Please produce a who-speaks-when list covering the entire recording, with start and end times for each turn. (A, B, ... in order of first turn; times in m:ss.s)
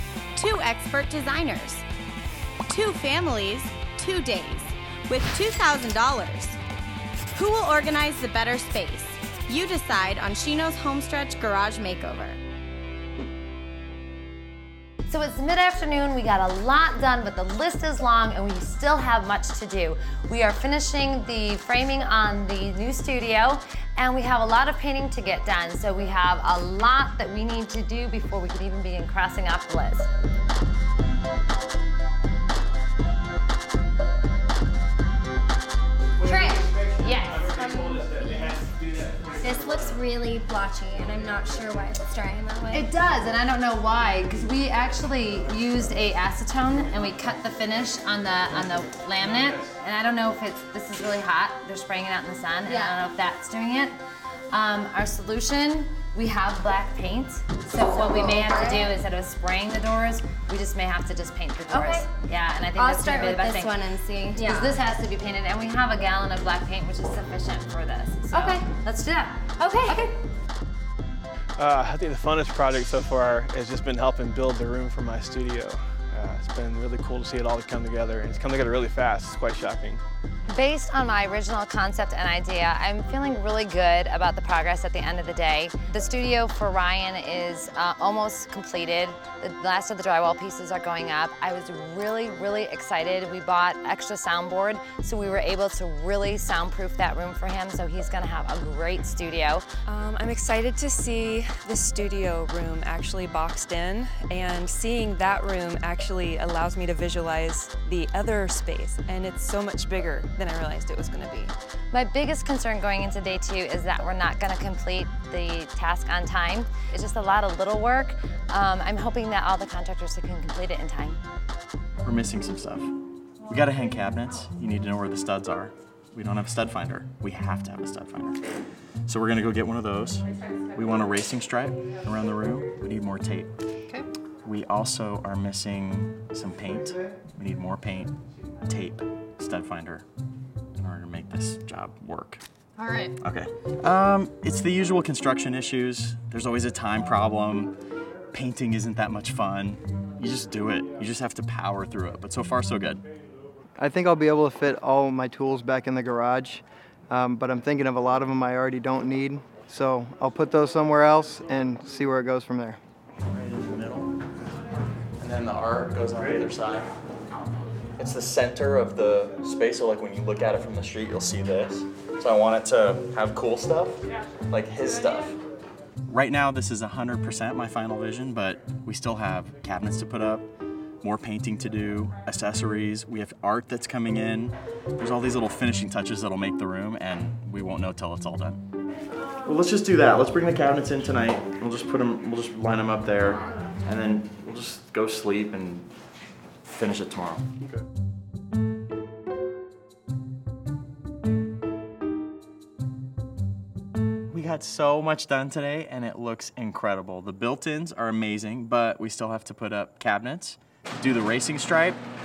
0:00.4-0:01.8 A
0:02.7-0:06.6 A
0:07.4-0:12.4 A
0:15.1-0:30.1 B
0:36.2-0:37.7 B
0:37.4-0:43.0 C
0:42.7-0:53.9 B
0:52.7-0:53.0 C
0:54.5-1:03.8 B
0:57.7-0:59.0 C
1:01.7-1:02.1 C
1:02.8-1:04.8 C
1:04.3-1:10.1 B
1:08.3-1:08.7 C
1:09.6-1:10.1 C
1:11.6-1:20.0 D
1:20.5-1:39.7 B
1:39.8-1:51.5 E
1:51.9-2:01.2 B
2:02.0-2:02.9 F
2:03.5-2:08.4 F
2:09.1-2:13.5 F
2:14.4-2:18.1 F
2:18.7-2:20.0 F
2:20.8-2:22.4 F
2:22.8-2:23.1 C
2:23.2-2:27.7 F
2:28.3-2:33.0 F
2:33.8-2:42.8 G
2:43.3-2:44.1 F
2:45.2-2:46.9 F
2:48.0-2:55.4 F
2:56.1-3:00.5 F
3:01.0-3:08.6 F
3:09.4-3:15.9 F
3:16.7-3:17.5 F
3:24.3-3:32.0 F